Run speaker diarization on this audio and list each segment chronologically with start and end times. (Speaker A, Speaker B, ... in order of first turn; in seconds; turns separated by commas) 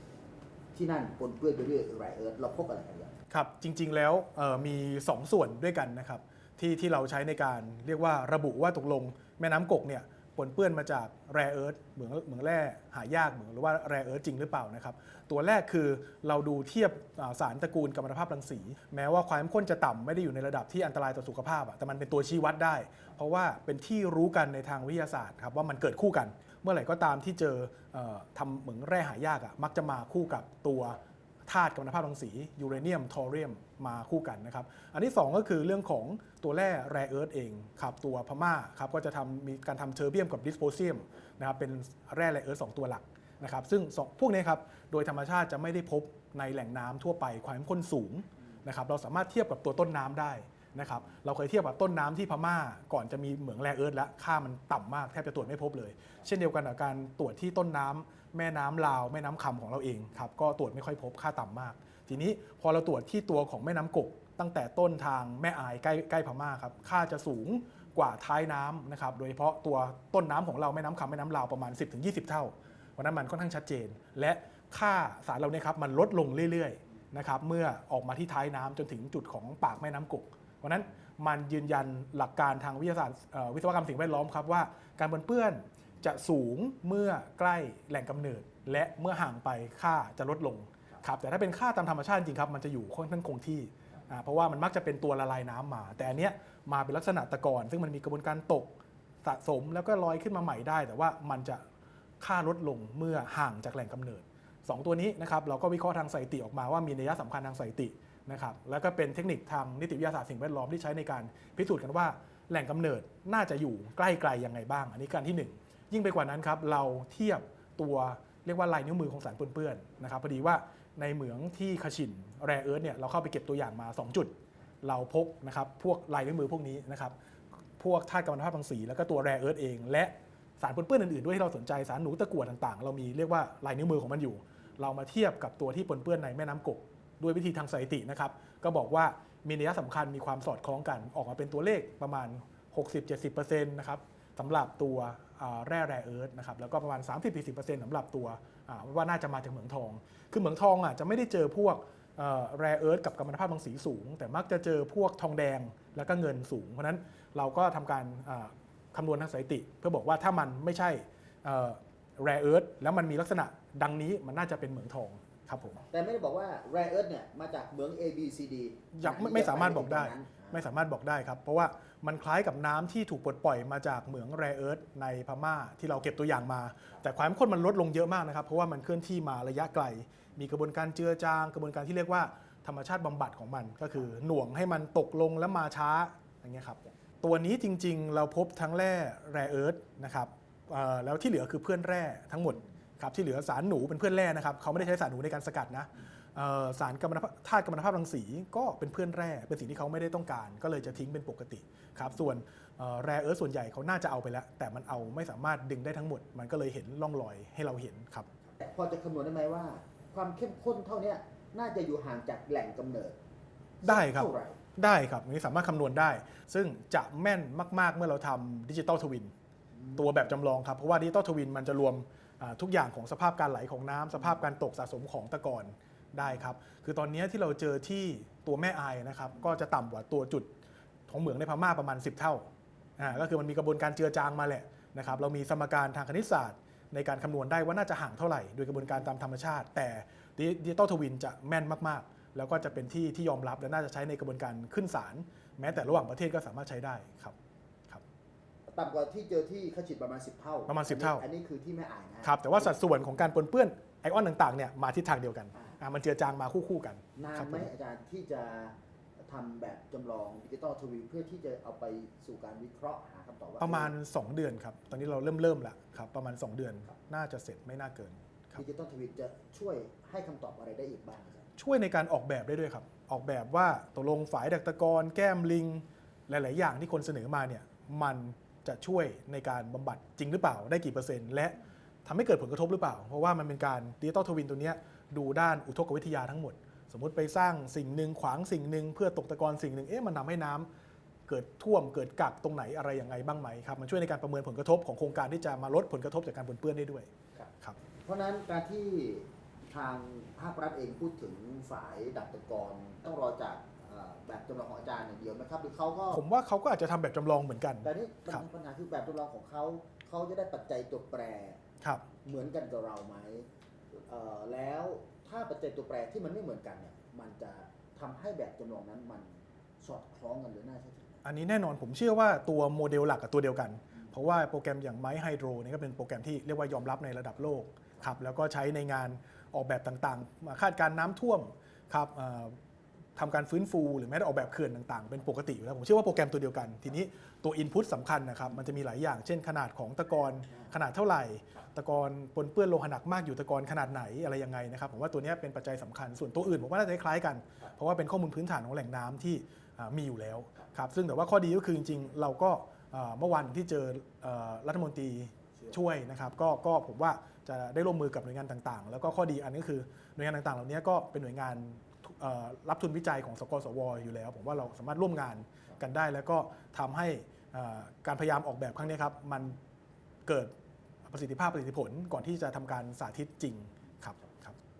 Speaker A: 0.7-3.1, Speaker B: 3.3-98.7, Speaker B: 99.2-101.6, Speaker B: 102.2-127.1, Speaker B: 127.8-165.8, Speaker A: 165.9-170.7, Speaker B: 168.9-208.3, Speaker A: 208.6-213.2, Speaker A: 213.8-214.6, Speaker B: 213.8-219.3, Speaker A: 219.8-220.0, Speaker B: 219.9-230.5, Speaker B: 231.1-232.5, Speaker B: 233.0-247.3, Speaker A: 248.7-252.6, Speaker B: 250.7-251.2, Speaker B: 252.2-257.7, Speaker A: 257.1-258.7, Speaker A: 259.3-263.9, Speaker B: 263.6-268.6, Speaker A: 268.6-271.4, Speaker B: 271.6-290.7, Speaker B: 291.3-297.8, Speaker A: 298.0-306.2, Speaker B: 306.1-308.4, Speaker A: 307.8-311.6, Speaker B: 311.8-312.1, Speaker A: 312.2-313.5, Speaker A: 314.1-321.2, Speaker B: 321.2-332.6, Speaker B: 333.1-369.6, Speaker B: 370.2-370.5, Speaker B: 371.1-374.6